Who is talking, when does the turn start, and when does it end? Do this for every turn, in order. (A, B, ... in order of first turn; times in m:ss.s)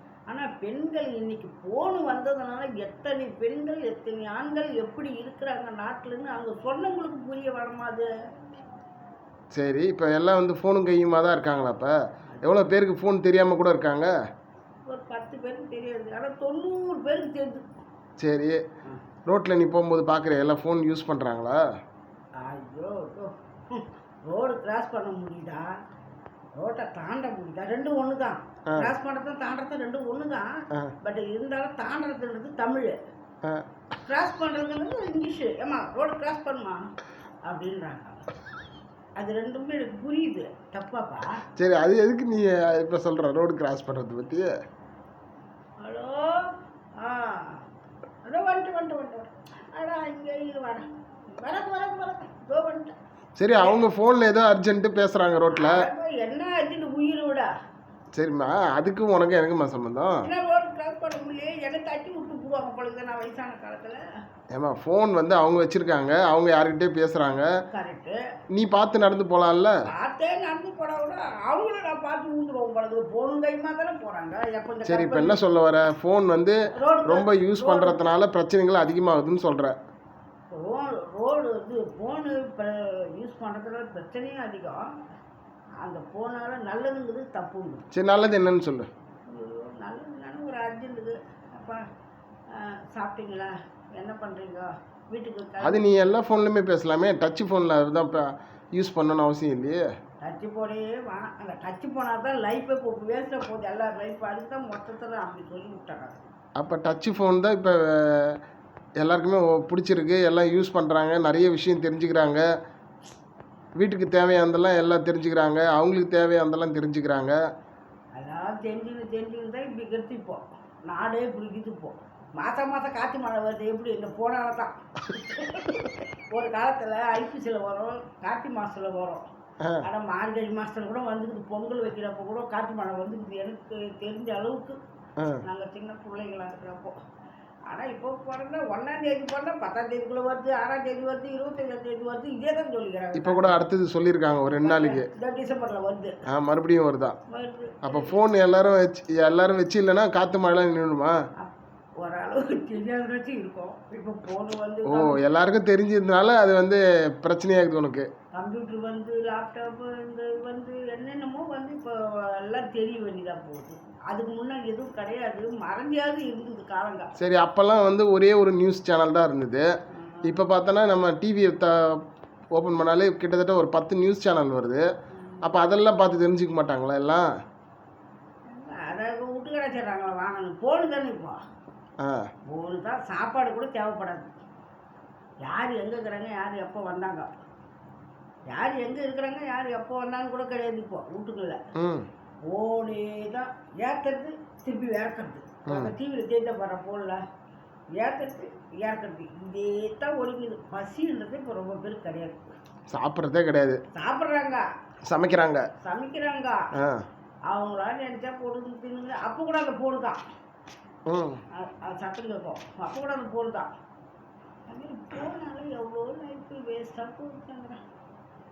0:00.3-0:08.1 A
0:09.5-0:14.1 B
0:14.9-0:17.7 A
0:18.2-0:18.6 B
0:19.2-0:21.6 B
0:22.4-0:25.7 A
0:26.6-0:33.0 A
0:34.0-0:36.8 A
0:37.4-0:38.2 A
0:39.2-0:41.4 A
0:41.6-0:44.5 B
0:45.8-0:47.6 A
0:48.2-0:53.0 A
0:53.4-0:55.8 B
0:55.5-0:57.5 A
0:58.1-1:00.3 B
1:00.2-1:04.0 A
1:04.5-1:07.5 B
1:07.7-1:08.2 A
1:08.5-1:09.8 B
1:09.9-1:15.4 A
1:14.8-1:19.8 B
1:16.7-1:18.0 A
1:20.5-1:24.9 A
1:25.8-1:27.8 A
1:27.9-1:28.9 B
1:29.2-1:31.8 A
1:32.5-1:35.9 A
1:35.6-1:39.9 B
1:40.2-1:46.2 A
1:46.6-1:48.4 B
1:49.0-1:52.4 B
1:53.8-1:57.4 B
1:58.2-2:09.2 A
2:09.8-2:14.8 A
2:15.4-2:17.0 A
2:17.7-2:23.6 A
2:23.2-2:25.1 B
2:24.6-2:26.1 A
2:26.3-2:27.2 B
2:27.3-2:28.2 A
2:27.8-2:31.2 B
2:31.4-2:35.2 A
2:34.9-2:38.1 B
2:38.3-2:47.1 A
2:47.2-2:49.7 B
2:49.9-2:50.4 A
2:50.2-2:54.8 B
2:55.4-2:57.3 B
2:58.5-3:01.4 A
3:02.0-3:02.3 B
3:02.5-3:04.4 A
3:05.4-3:07.3 A
3:08.5-3:11.6 A
3:11.7-3:12.1 B
3:12.4-3:17.2 A
3:15.7-3:15.9 B
3:18.0-3:22.5 A
3:22.9-3:23.8 B
3:23.9-3:24.6 A
3:25.0-3:25.6 B
3:25.8-3:26.6 A
3:26.8-3:27.1 B
3:27.5-3:30.2 A
3:31.1-3:31.4 B
3:31.5-3:33.7 A
3:34.7-3:37.8 A